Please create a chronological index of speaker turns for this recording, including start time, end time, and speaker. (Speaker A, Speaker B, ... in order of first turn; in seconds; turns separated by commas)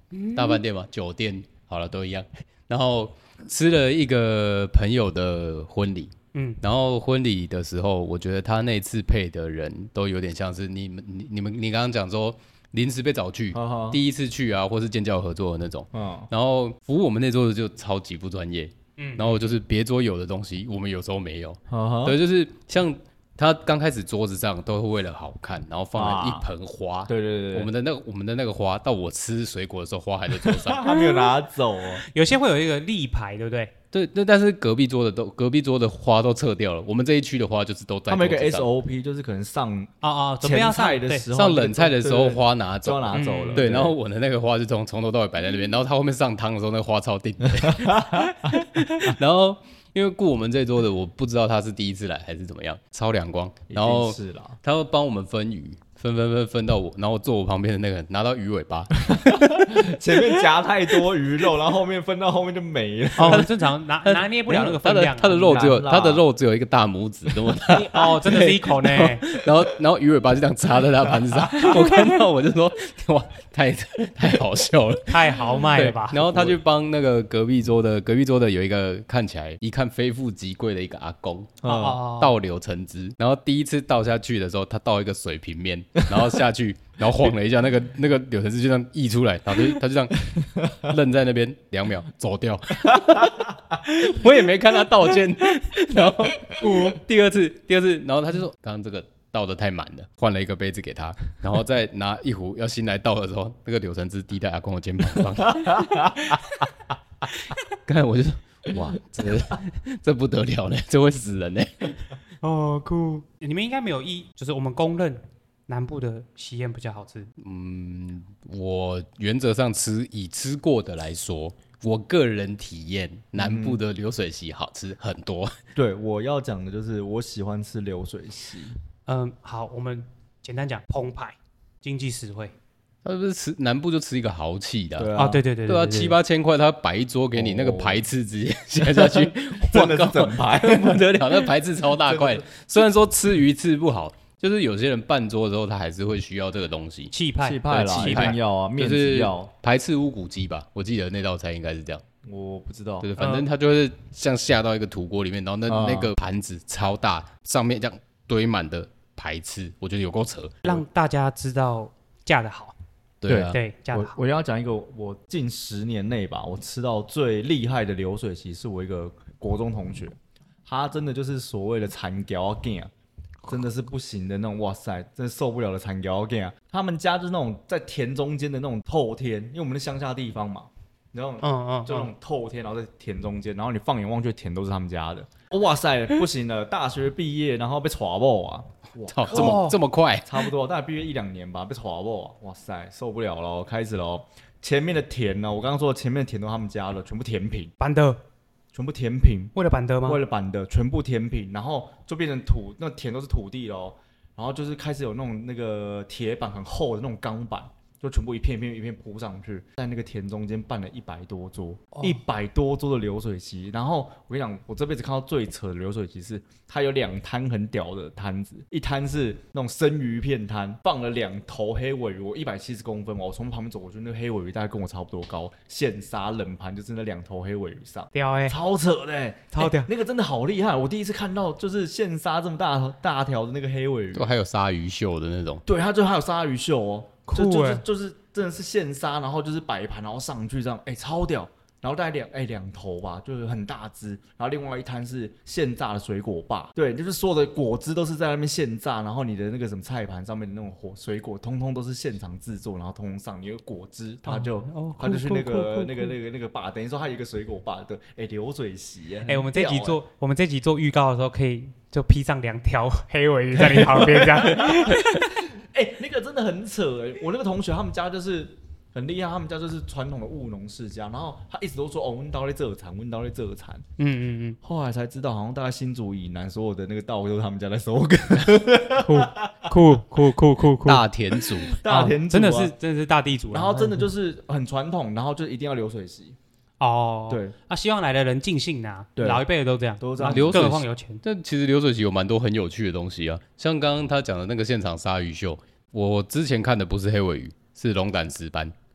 Speaker A: 0.1-0.6, Speaker B: 0.3-30.9, Speaker A: 6.3-6.6, Speaker C: 13.5-14.0, Speaker C: 15.9-16.3, Speaker A: 19.0-19.4, Speaker C: 21.7-22.2, Speaker C: 25.9-26.5, Speaker C: 27.1-27.7, Speaker C: 30.4-32.0, Speaker A: 30.8-31.4, Speaker A: 31.9-33.7, Speaker B: 33.9-38.7, Speaker C: 38.1-43.9, Speaker A: 40.0-41.3, Speaker B: 41.3-59.9, Speaker A: 43.1-43.6, Speaker C: 47.6-48.6, Speaker C: 53.7-54.6, Speaker C: 59.1-63.5, Speaker A: 63.2-65.6, Speaker B: 63.2-63.5, Speaker B: 64.0-106.1, Speaker C: 65.3-66.2, Speaker A: 67.7-69.2, Speaker C: 71.0-71.9, Speaker A: 71.6-72.0, Speaker A: 75.1-76.5, Speaker C: 76.3-76.6, Speaker C: 81.6-82.0, Speaker A: 81.6-82.4, Speaker C: 86.0-86.4, Speaker C: 90.3-90.7, Speaker C: 92.9-93.4, Speaker A: 96.6-97.0, Speaker C: 105.5-106.1, Speaker A: 106.2-106.6, Speaker B: 107.8-112.0, Speaker A: 112.4-117.3, Speaker B: 117.4-125.5, Speaker C: 123.3-123.8, Speaker C: 125.7-128.8, Speaker A: 129.1-132.5, Speaker B: 133.0-135.1, Speaker C: 134.9-135.4, Speaker A: 135.2-136.2, Speaker B: 135.7-147.1, Speaker C: 137.3-138.1, Speaker C: 138.8-142.5, Speaker A: 147.1-148.4, Speaker C: 147.4-149.5, Speaker B: 147.7-152.0, Speaker C: 152.2-153.1, Speaker B: 153.0-160.8, Speaker A: 153.2-153.5, Speaker C: 155.7-156.1, Speaker A: 160.6-162.7, Speaker B: 163.2-163.6, Speaker C: 163.3-172.9, Speaker A: 163.5-164.2, Speaker C: 173.4-197.7, Speaker A: 181.4-182.1, Speaker B: 189.1-190.5, Speaker A: 189.3-189.8, Speaker A: 197.8-198.2, Speaker C: 198.7-234.3, Speaker A: 199.5-200.2, Speaker A: 228.1-228.6, Speaker A: 229.5-229.9, Speaker B: 234.1-235.6, Speaker C: 235.7-260.0, Speaker A: 237.3-237.8, Speaker A: 254.2-256.1, Speaker A: 259.2-265.4, Speaker C: 263.6-273.8, Speaker A: 274.0-274.6, Speaker C: 274.6-279.9, Speaker A: 279.0-281.0, Speaker B: 280.8-281.8, Speaker C: 281.3-282.7, Speaker A: 281.8-284.1, Speaker C: 283.5-286.4, Speaker A: 286.8-291.2, Speaker C: 287.3-287.5, Speaker C: 289.1-289.4, Speaker C: 290.0-290.7, Speaker B: 290.2-298.7